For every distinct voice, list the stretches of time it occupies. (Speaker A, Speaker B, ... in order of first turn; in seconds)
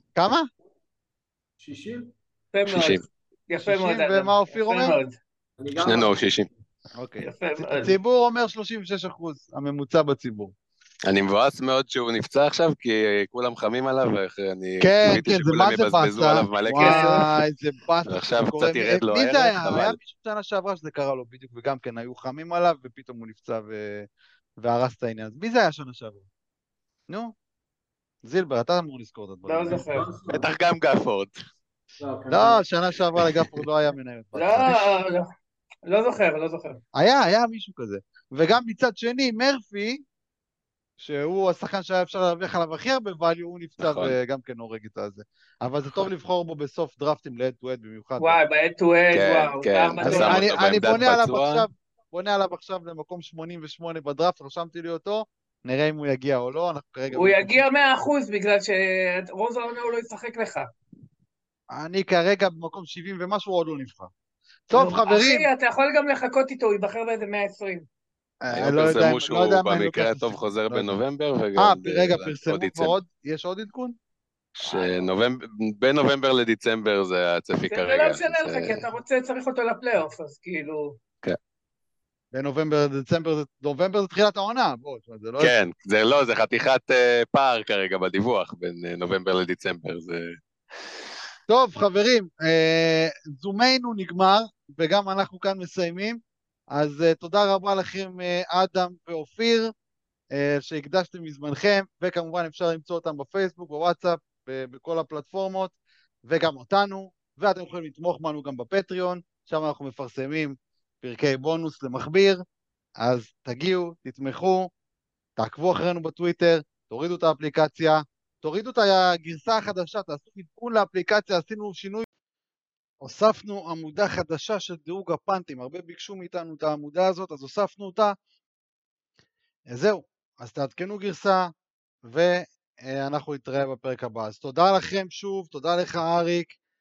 Speaker A: 0.2-0.5, 3.6-5.0, 6.9-10.5, 14.8-26.2, 27.1-27.4, 28.2-29.8, 32.3-35.0, 37.0-40.0, 41.0-48.4, 50.0-57.6, 61.7-64.1, 64.7-65.5, 68.4-70.9, 71.6-74.0, 82.3-85.5, 91.5-99.7, 100.3-112.4, 113.0-114.7, 115.4-122.1, 123.0-128.2, 129.7-136.6
Speaker B: 1.6-2.1, 5.6-6.3, 29.7-30.5, 32.0-32.6
Speaker C: 2.5-5.1, 7.2-8.0, 16.8-17.2, 29.4-30.1, 34.4-35.3, 35.9-36.8, 48.2-50.8, 57.1-60.7, 64.7-67.9, 77.7-81.0
Speaker D: 2.7-3.0, 5.8-6.5, 11.1-17.3, 18.1-20.0, 30.3-31.4, 43.8-44.1, 49.1-51.7, 68.5-73.0, 74.6-78.9, 85.4-90.4